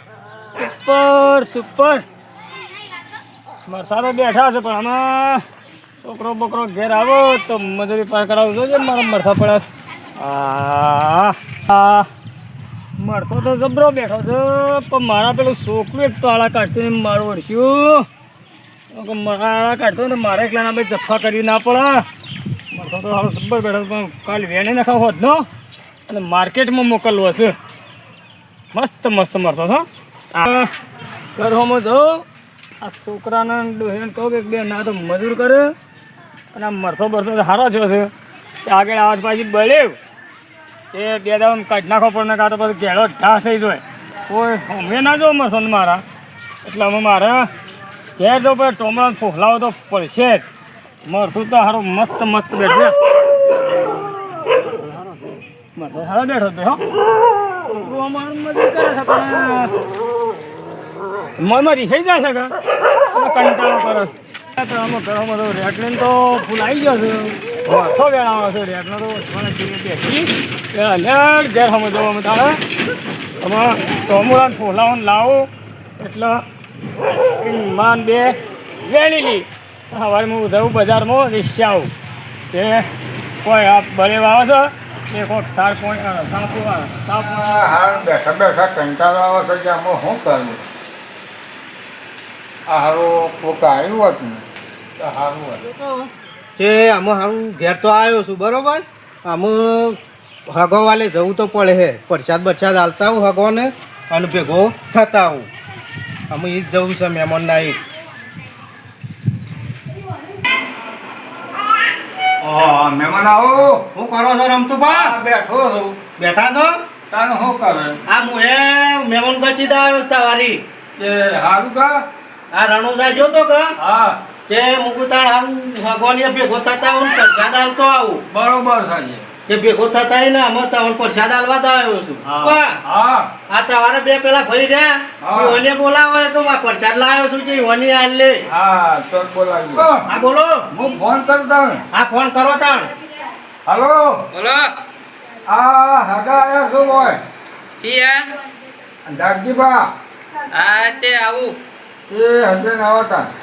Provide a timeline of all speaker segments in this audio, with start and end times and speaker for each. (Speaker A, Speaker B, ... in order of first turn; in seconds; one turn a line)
Speaker A: 0.5-2.0
Speaker A: 3.6-5.4
Speaker A: 6.0-9.7
Speaker A: 10.2-12.1
Speaker A: 13.0-18.1
Speaker A: 18.9-22.0
Speaker A: 22.7-25.4
Speaker A: 26.1-27.5
Speaker A: 28.7-30.7
Speaker A: 31.4-32.2
Speaker A: 32.8-35.7
Speaker A: 36.5-38.1
Speaker A: 38.6-40.0
Speaker A: 40.9-46.0
Speaker A: 46.6-47.5
Speaker A: 48.2-50.4
Speaker A: 51.0-52.9
Speaker A: 55.8-56.8
Speaker A: 57.6-59.8
Speaker A: 61.4-62.5
Speaker A: 63.1-72.6
Speaker A: 73.4-76.4
Speaker A: 77.4-81.9
Speaker A: 82.5-82.8
Speaker A: 83.4-87.6
Speaker B: 87.2-90.6
Speaker B: 92.7-94.4
Speaker B: 95.0-95.6
Speaker C: 95.6-105.5
Speaker C: 106.3-107.8
Speaker B: 112.4-113.8
Speaker C: 113.9-115.1
Speaker B: 114.9-116.0
Speaker C: 116.2-116.8
Speaker B: 117.1-118.0
Speaker C: 118.1-120.6
Speaker B: 121.0-122.0
Speaker C: 122.5-123.7
Speaker B: 123.8-124.2
Speaker C: 124.5-128.2
Speaker B: 128.3-129.2
Speaker C: 129.5-132.8
Speaker B: 132.2-133.3
Speaker C: 133.5-138.4
Speaker B: 135.2-135.6
Speaker B: 138.5-140.1
Speaker C: 140.1-140.6
Speaker B: 140.7-141.8
Speaker C: 141.9-142.9
Speaker B: 143.7-144.2
Speaker D: 144.3-144.7
Speaker B: 145.5-147.2
Speaker D: 147.8-148.3
Speaker B: 149.1-149.8
Speaker D: 150.5-151.6
Speaker B: 152.1-153.3